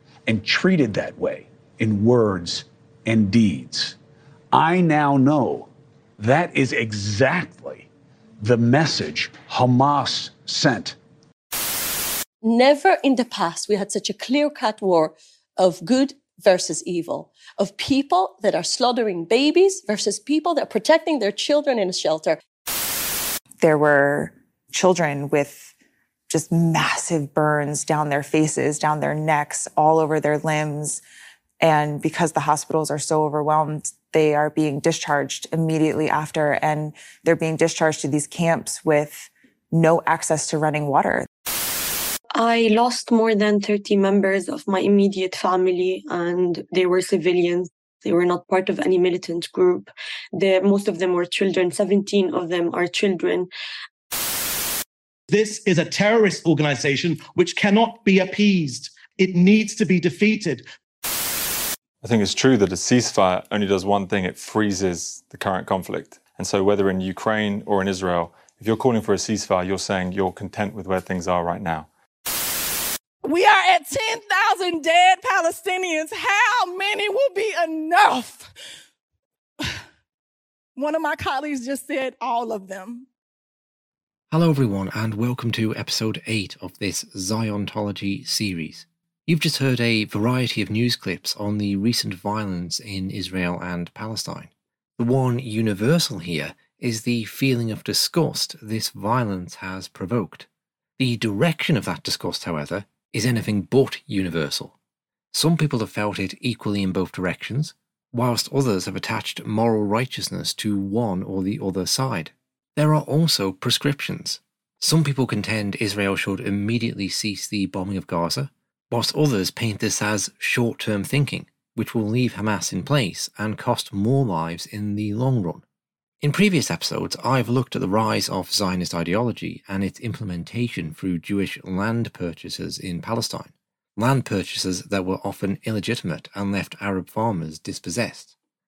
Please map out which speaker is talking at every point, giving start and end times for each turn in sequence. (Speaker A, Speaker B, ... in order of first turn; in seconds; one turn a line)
Speaker A: 0.3-4.0
Speaker A: 4.5-7.9
Speaker A: 8.4-11.0
Speaker B: 12.4-22.4
Speaker C: 23.6-25.7
Speaker C: 26.3-31.0
Speaker C: 31.6-41.3
Speaker D: 42.3-53.5
Speaker E: 55.3-60.6
Speaker F: 62.0-71.9
Speaker G: 73.2-78.5
Speaker G: 80.8-83.1
Speaker H: 84.3-104.8
Speaker H: 105.3-125.6
Speaker H: 126.2-138.3